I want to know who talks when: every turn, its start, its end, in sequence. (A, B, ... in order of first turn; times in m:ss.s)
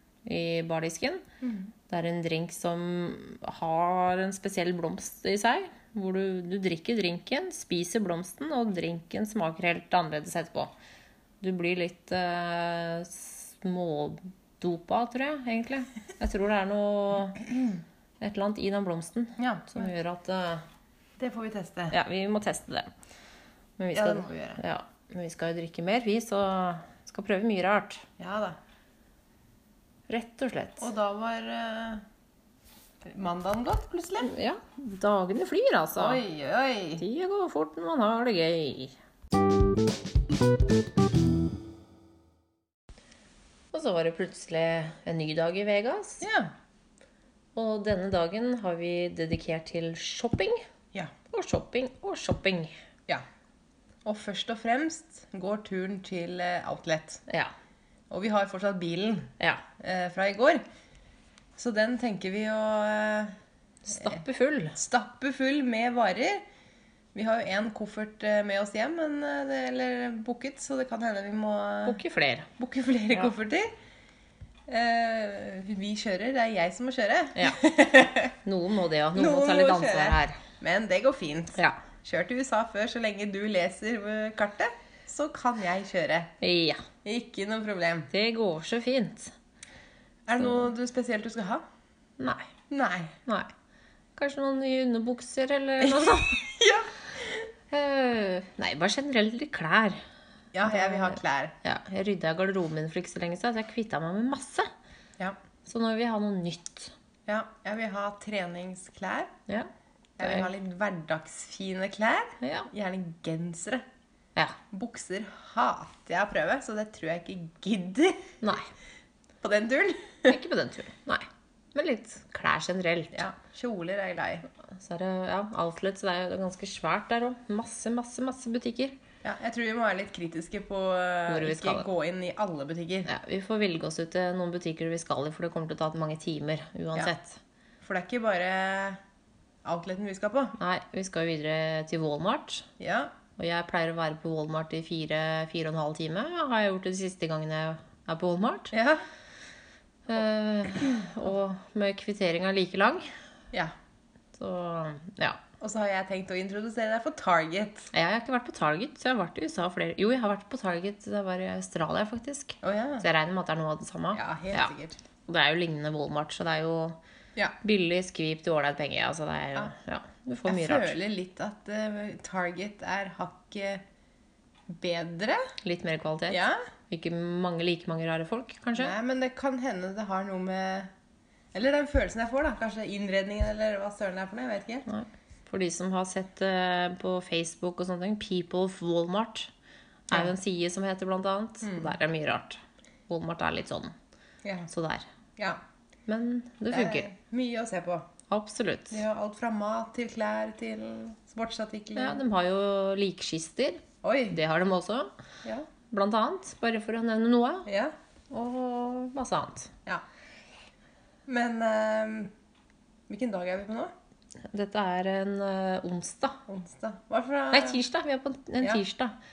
0:00.3-0:01.2 A
0:01.4-0:01.7 B
0:01.9-0:10.7 A
0:11.4-0:17.5 A
0:18.2-0:20.6 A
0:19.4-0:19.9 B
0:21.2-0:22.0 B
0:21.9-0:22.9 A
0:23.8-0:28.0 A
0:23.9-0:24.6 B
0:28.2-0:28.6 B
0:30.1-0:30.9 A
0:30.8-0:32.0 B
0:33.0-0:34.3 B
0:34.2-0:36.2 A
0:36.0-0:37.0 B
0:37.0-0:39.0 A
0:43.7-0:46.3 A
0:46.2-0:46.5 B
0:47.6-0:50.7 A
0:51.3-0:52.8 A
0:54.0-0:57.2 B
0:57.3-0:57.5 A
0:58.1-1:00.6 B
1:01.6-1:03.4 B
1:03.9-1:04.8 A
1:04.8-1:06.4 B
1:07.1-1:12.0 B
1:11.8-1:12.5 A
1:12.6-1:13.7 B
1:14.7-1:18.4 B
1:18.4-1:20.4 A
1:19.2-1:26.3 B
1:26.4-1:26.8 A
1:27.0-1:28.1 B
1:28.1-1:29.3 A
1:30.3-1:31.6 B
1:32.2-1:32.5 A
1:32.7-1:33.2 B
1:33.3-1:33.5 A
1:34.2-1:36.4 A
1:35.8-1:37.5 B
1:37.7-1:40.0 A
1:40.5-1:41.6 B
1:40.6-1:44.7 A
1:45.7-1:46.9 A
1:47.3-1:49.3 B
1:50.2-1:53.8 B
1:50.2-1:50.5 A
1:52.4-1:52.7 A
1:54.7-1:58.3 B
1:58.4-1:58.7 A
1:59.4-2:00.4 B
2:00.3-2:03.3 A
2:03.1-2:04.5 B
2:04.7-2:09.0 A
2:09.2-2:13.1 B
2:11.3-2:11.9 A
2:13.1-2:17.4 A
2:17.8-2:19.0 B
2:19.6-2:20.6 B
2:20.6-2:22.7 A
2:22.8-2:23.1 B
2:23.4-2:28.7 A
2:28.7-2:29.0 B
2:30.1-2:33.1 A
2:34.4-2:35.4 A
2:35.6-2:37.9 B
2:37.9-2:44.7 A
2:42.6-2:43.1 B
2:44.1-2:45.0 B
2:45.3-2:47.0 A
2:47.6-2:51.0 A
2:50.5-2:53.8 B
2:54.7-2:55.5 B
2:55.6-2:59.0 A
2:56.3-2:56.6 B
2:58.8-3:00.9 B
3:01.5-3:04.8 B
3:04.9-3:09.5 A
3:10.1-3:13.9 A
3:11.6-3:12.0 B
3:14.4-3:14.7 B
3:14.7-3:15.1 A
3:16.1-3:17.1 A
3:16.7-3:18.1 B
3:18.3-3:19.0 A
3:18.9-3:22.2 B
3:22.0-3:25.1 A
3:24.0-3:24.4 B
3:25.9-3:27.7 A
3:27.7-3:27.9 B
3:28.3-3:29.7 A
3:31.3-3:32.3 B
3:33.1-3:33.9 B
3:34.5-3:36.4 A
3:36.5-3:37.8 B
3:37.5-3:39.2 A